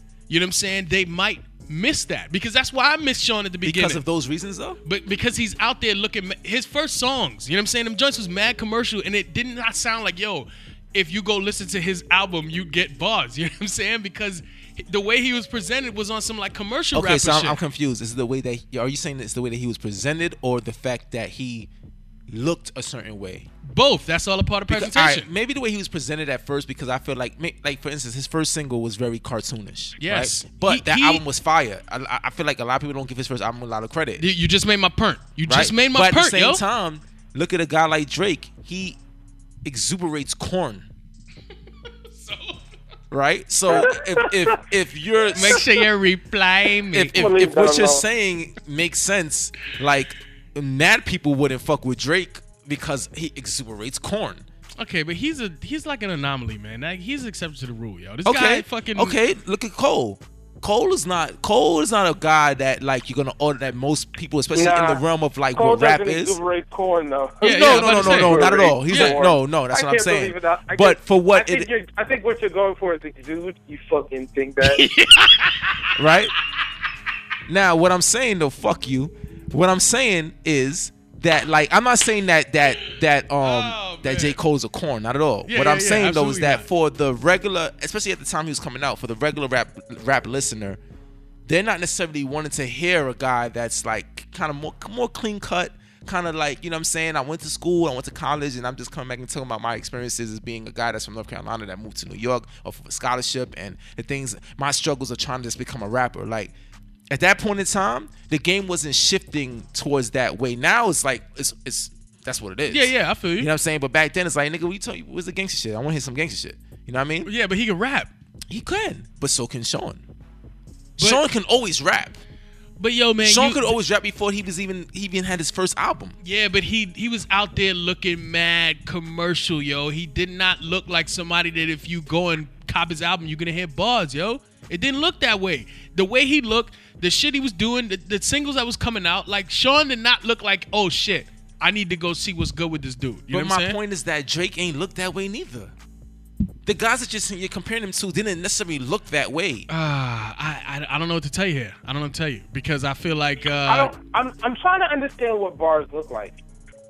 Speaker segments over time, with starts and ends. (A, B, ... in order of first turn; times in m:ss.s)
0:00.3-0:04.0 A
0:03.6-0:04.8 B
0:04.8-0:17.6 A
0:16.9-0:21.7 B
0:22.3-0:23.5 B
0:23.6-0:25.3 A
0:24.7-0:34.2 B
0:30.0-0:31.2 A
0:34.2-0:36.6 A
0:35.5-0:39.0 B
0:39.6-0:40.9 B
0:42.1-0:42.6 A
0:43.1-0:45.7 B
0:43.7-0:44.6 C
0:45.3-0:47.2 A
0:46.9-0:54.5 B
0:47.1-0:48.0 C
0:54.8-0:59.2 A
0:58.2-1:06.4 B
1:04.6-1:05.0 C
1:05.6-1:14.8 C
1:07.4-1:09.2 A
1:07.4-1:11.7 B
1:14.6-1:16.2 A
1:16.0-1:16.3 B
1:17.5-1:30.8 B
1:22.8-1:24.4 A
1:25.5-1:26.7 A
1:31.5-1:46.5 B
1:47.1-1:57.3 B
1:52.7-1:53.5 A
1:57.2-1:58.1 A
1:58.5-2:00.0 B
2:01.0-2:02.2 B
2:01.0-2:01.2 A
2:02.8-2:03.7 A
2:03.2-2:06.2 B
2:06.2-2:23.8 A
2:23.3-2:25.7 B
2:26.7-2:29.7 B
2:29.7-2:33.9 A
2:33.7-2:36.4 C